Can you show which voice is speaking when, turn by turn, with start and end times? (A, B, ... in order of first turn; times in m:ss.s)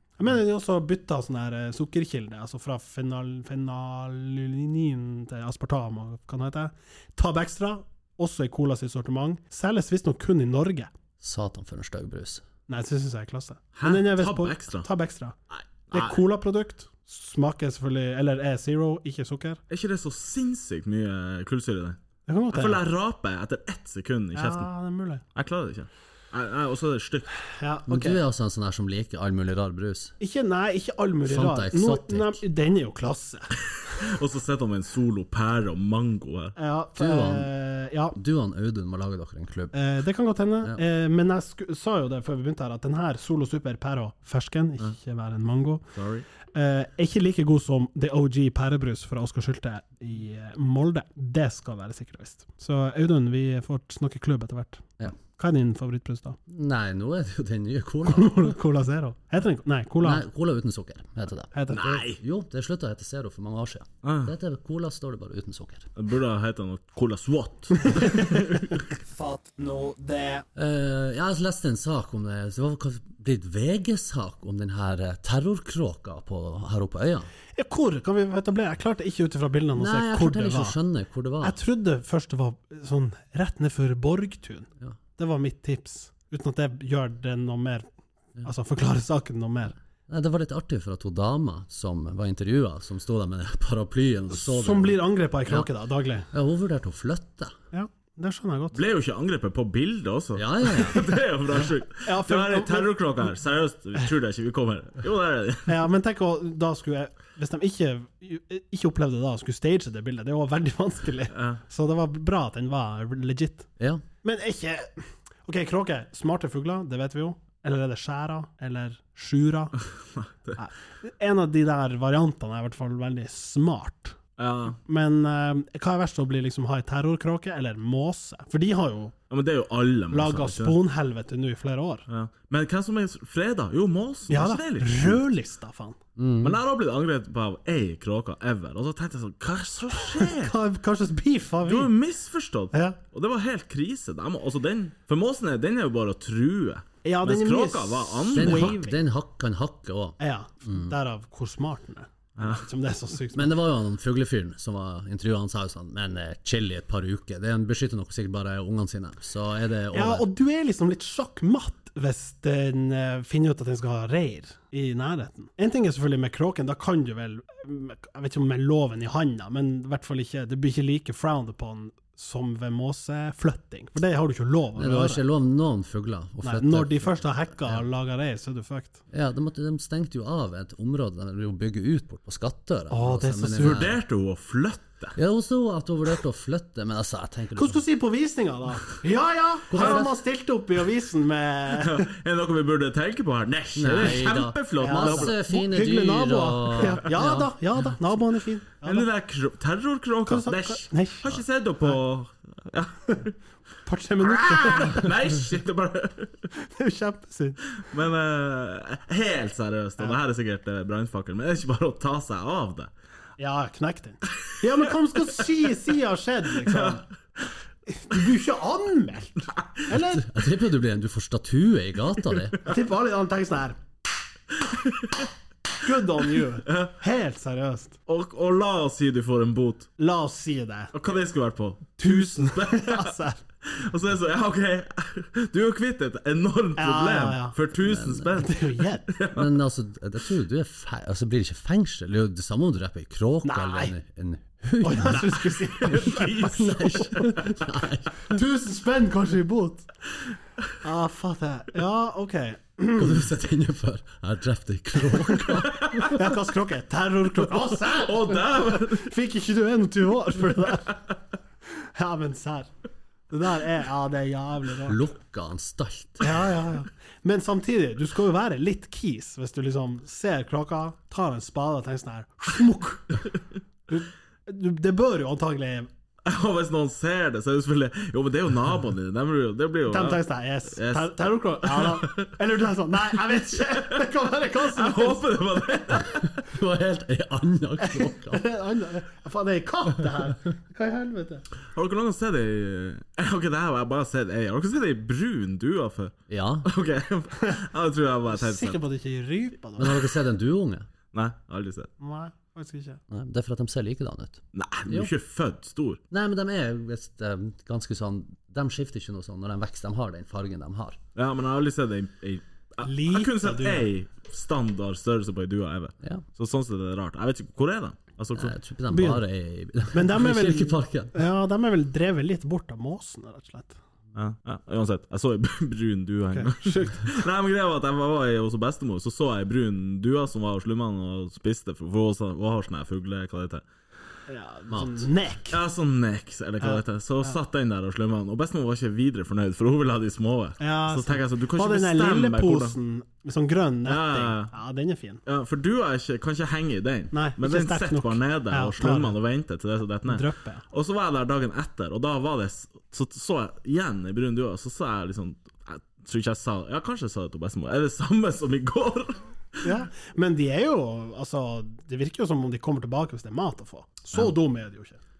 0:00.2-0:10.9 A
0:11.2-0:12.4 B
0:12.7-0:15.4 A
0:13.8-0:14.9 C
0:15.5-0:16.2 C
0:15.9-0:19.6 A
0:19.7-0:22.0 C
0:22.3-0:22.8 A
0:22.5-0:24.7 C
0:24.3-0:25.2 A
0:25.4-0:27.3 C
0:27.6-0:28.2 A
0:27.9-0:30.1 B
0:30.2-0:33.5 A
0:31.3-0:32.4 B
0:33.6-0:36.6 C
0:36.6-0:38.2 A
0:37.0-0:37.5 B
0:38.1-0:39.7 B
0:39.7-0:45.8 A
0:46.0-0:46.3 C
0:46.5-0:56.4 A
0:56.5-0:58.6 B
0:58.1-1:00.2 A
1:00.0-1:05.9 B
1:01.5-1:02.2 A
1:04.0-1:04.3 C
1:06.0-1:08.8 C
1:07.8-1:10.4 A
1:10.6-1:17.3 B
1:17.6-1:20.8 A
1:19.8-1:21.6 B
1:21.4-1:27.9 A
1:28.4-1:29.8 A
1:30.1-1:35.7 B
1:34.3-1:36.3 A
1:36.3-1:37.6 B
1:37.7-1:38.8 A
1:38.7-1:45.8 C
1:40.4-1:41.1 B
1:42.0-1:42.9 A
1:45.7-1:53.7 A
1:51.3-1:51.6 C
1:54.2-1:59.7 A
2:00.2-2:00.6 C
2:00.6-2:04.2 A
2:04.4-2:04.8 C
2:04.8-2:09.1 A
2:09.3-2:10.8 C
2:10.1-2:12.1 A
2:12.1-2:15.2 C
2:14.3-2:16.0 A
2:16.2-2:16.6 B
2:16.4-2:20.5 C
2:20.0-2:21.9 A
2:21.6-2:28.8 C
2:22.7-2:23.0 A
2:27.0-2:29.0 A
2:28.3-2:30.9 B
2:30.2-2:33.6 A
2:32.4-2:32.6 C
2:33.3-2:40.3 B
2:39.9-2:55.2 A
2:54.8-2:57.8 B
2:56.4-2:59.0 A
2:59.1-3:04.0 B
3:02.9-3:03.9 A
3:03.6-3:05.2 C
3:05.2-3:07.8 B
3:07.6-3:12.1 A
3:09.7-3:10.1 B
3:09.8-3:10.0 C
3:11.7-3:15.4 C
3:13.8-3:17.5 B
3:14.8-3:19.1 A
3:18.8-3:23.4 C
3:20.3-3:22.0 A
3:23.9-3:25.1 A
3:24.2-3:26.5 C
3:26.5-3:27.6 A
3:27.8-3:32.9 C
3:33.4-3:37.0 A
3:36.6-3:37.0 C
3:37.9-3:40.3 A
3:39.9-3:42.6 B
3:42.6-3:43.8 A
3:44.6-3:45.3 C
3:45.8-3:48.0 A
3:46.4-3:46.9 C
3:48.1-3:49.9 C
3:50.0-3:50.9 A
3:50.9-3:59.5 C
3:52.0-3:53.4 A
3:56.8-3:57.6 A
3:57.8-3:58.4 B
3:58.4-3:59.1 A
3:59.3-4:08.2 B
4:03.4-4:04.0 A
4:04.8-4:07.4 A
4:05.8-4:06.6 C
4:08.2-4:09.9 A
4:10.8-4:13.2 A
4:13.0-4:16.3 B
4:15.2-4:21.0 A
4:15.7-4:16.1 C
4:17.7-4:19.1 C
4:21.8-4:22.7 A
4:23.3-4:25.0 A
4:24.8-4:26.4 B
4:26.2-4:33.3 A
4:33.9-4:35.9 A
4:36.2-4:42.4 C
4:39.9-4:46.0 A
4:43.2-4:46.4 C
4:46.3-4:48.4 B
4:47.8-4:51.4 A
4:51.7-4:58.8 C
4:56.3-4:56.7 B
4:58.3-5:00.1 A
4:59.8-5:00.9 B
5:01.1-5:01.9 C
5:02.0-5:03.0 A
5:03.1-5:05.1 B
5:04.5-5:06.0 C
5:06.1-5:11.0 B
5:11.2-5:18.6 C
5:12.8-5:13.9 A
5:18.4-5:21.1 B
5:18.9-5:19.2 A
5:19.9-5:23.8 A
5:24.2-5:33.6 C
5:26.3-5:27.2 A
5:34.3-5:35.6 A
5:34.7-5:35.1 B
5:35.5-5:42.8 C
5:36.6-5:37.4 A
5:40.6-5:45.2 A
5:43.8-5:44.5 C
5:45.3-5:59.8 C
5:47.1-5:49.2 A
5:50.1-5:50.6 A
5:59.6-6:05.0 A